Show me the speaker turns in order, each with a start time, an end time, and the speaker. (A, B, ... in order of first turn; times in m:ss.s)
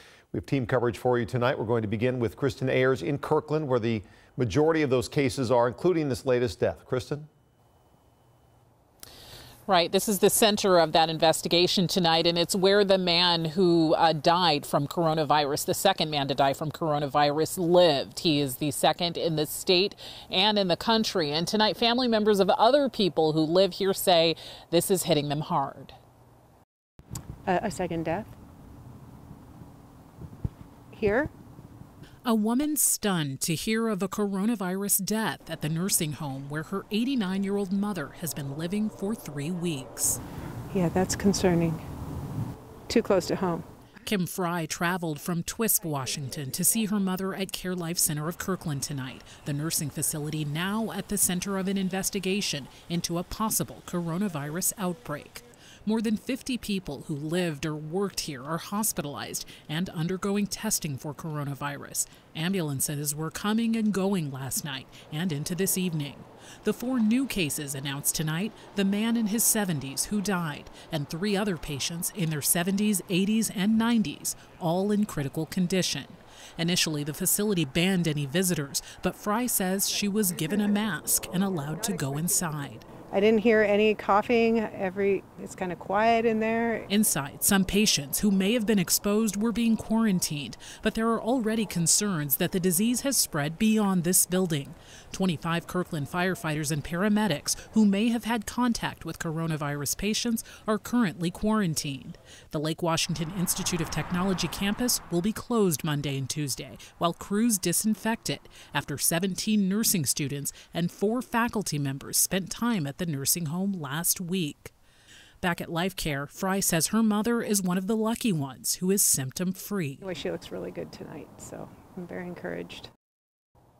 0:00.3-0:07.3 A
0:09.7-0:26.0 B
0:27.4-0:28.3 C
0:30.9-0:31.3 C
0:32.2-0:40.2 B
0:40.7-0:41.8 C
0:42.9-0:43.6 C
0:44.0-1:22.9 B
1:23.1-1:26.9 C
1:26.9-1:54.7 B
1:55.4-2:00.0 B
2:00.0-2:02.9 C